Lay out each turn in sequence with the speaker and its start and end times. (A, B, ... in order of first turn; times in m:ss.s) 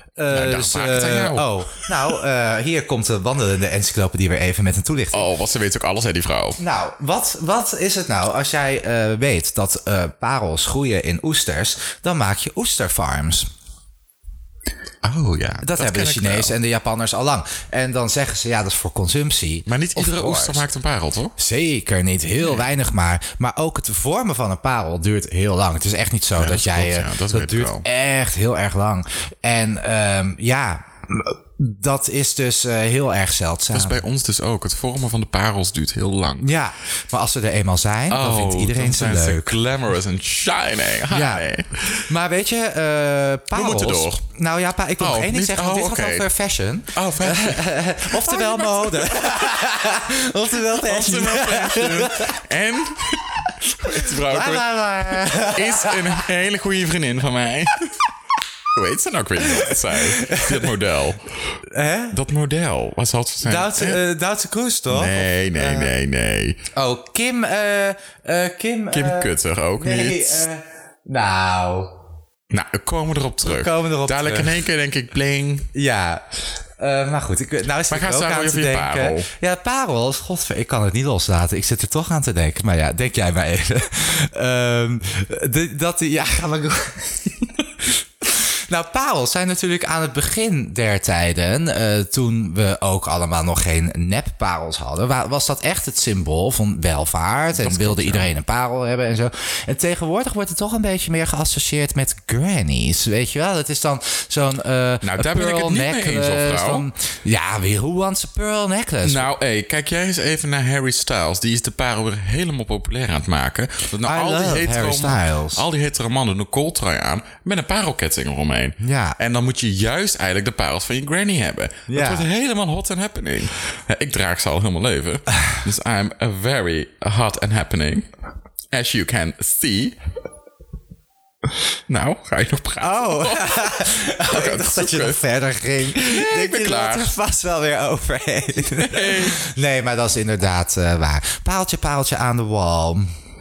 0:00.2-0:05.2 A
0:00.3-0:02.2 B
0:05.1-0:06.6 B
0:06.6-0:13.5 A
0:15.0-0:16.5 B
0:15.6-0:20.6 A
0:19.7-0:21.3 B
0:21.4-0:34.0 A
0:26.4-0:27.8 B
0:33.7-0:36.5 B
0:36.4-0:39.5 A
0:38.1-0:42.0 B
0:41.1-0:41.4 A
0:42.1-0:52.4 A
0:43.5-0:44.2 B
0:45.0-0:46.3 B
0:46.9-0:49.6 B
0:50.7-0:58.0 B
0:53.9-0:56.2 A
0:58.7-1:01.2 B
0:59.5-1:00.7 A
1:01.7-1:02.2 A
1:02.1-1:04.0 B
1:03.4-1:05.9 A
1:04.9-1:06.6 B
1:06.7-1:11.9 A
1:08.9-1:10.4 B
1:12.5-1:15.7 B
1:13.4-1:14.6 A
1:15.7-1:16.2 A
1:16.8-1:27.3 A
1:17.9-1:19.3 B
1:28.3-1:49.3 A
1:37.5-1:38.3 B
1:45.0-1:46.9 B
1:49.0-2:08.1 B
1:54.0-1:55.6 A
1:58.8-1:59.2 A
2:01.9-2:02.2 A
2:08.7-2:10.0 B
2:11.9-2:15.2 B
2:12.8-2:23.1 A
2:15.9-2:17.1 B
2:18.6-2:19.4 B